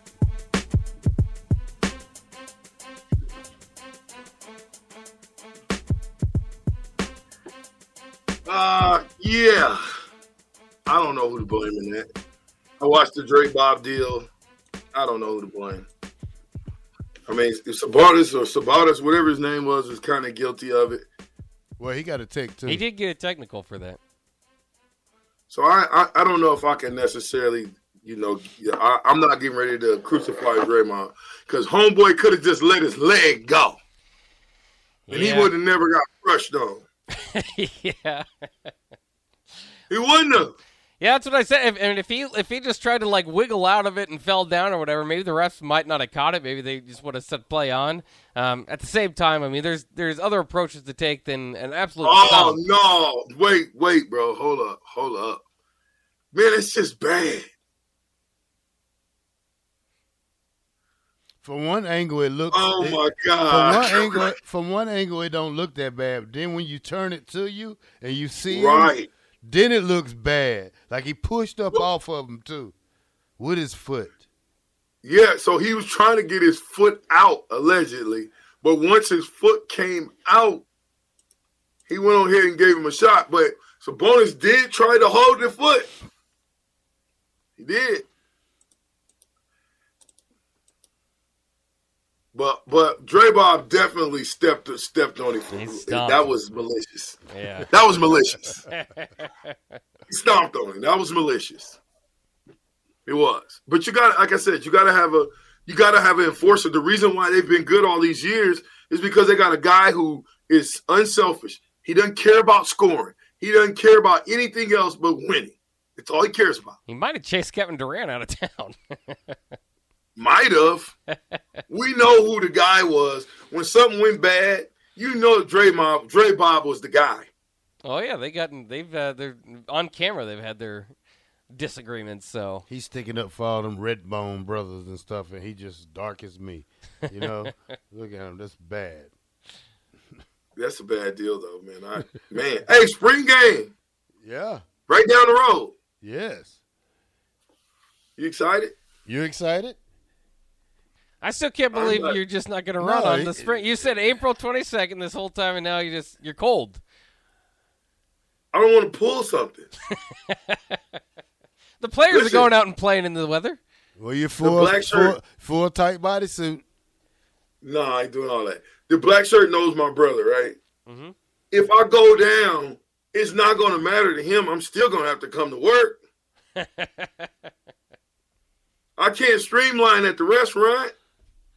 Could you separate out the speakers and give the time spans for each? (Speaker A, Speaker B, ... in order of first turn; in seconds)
Speaker A: 8.4-9.8, 10.9-12.1, 12.8-14.3, 14.9-15.9, 17.3-21.1, 25.5-33.8, 35.1-36.8, 39.9-40.5, 52.0-55.4, 56.3-57.5, 62.5-64.3, 68.5-69.1, 75.0-80.6, 81.9-85.9, 87.6-88.0, 92.3-98.6, 100.1-101.8, 103.0-116.8, 120.2-120.9, 121.7-127.3, 140.6-143.7, 144.9-145.7, 148.2-148.8, 151.7-152.2, 158.5-159.7, 162.1-162.5, 164.4-165.2, 167.6-170.6, 171.5-176.0, 179.0-180.9
Speaker B: 21.8-22.8, 61.4-72.7, 73.4-74.2, 132.7-139.1, 144.2-144.6, 146.0-146.6, 149.1-149.8, 152.8-153.8, 164.0-166.6
Speaker C: 22.6-24.0, 35.1-35.5, 37.3-38.7, 41.0-52.6, 95.5-96.3, 97.3-97.7, 98.7-99.5, 116.8-119.3, 127.8-130.9, 131.5-132.7, 151.2-156.8, 160.3-160.8, 161.8-163.6, 170.8-171.1, 176.6-177.3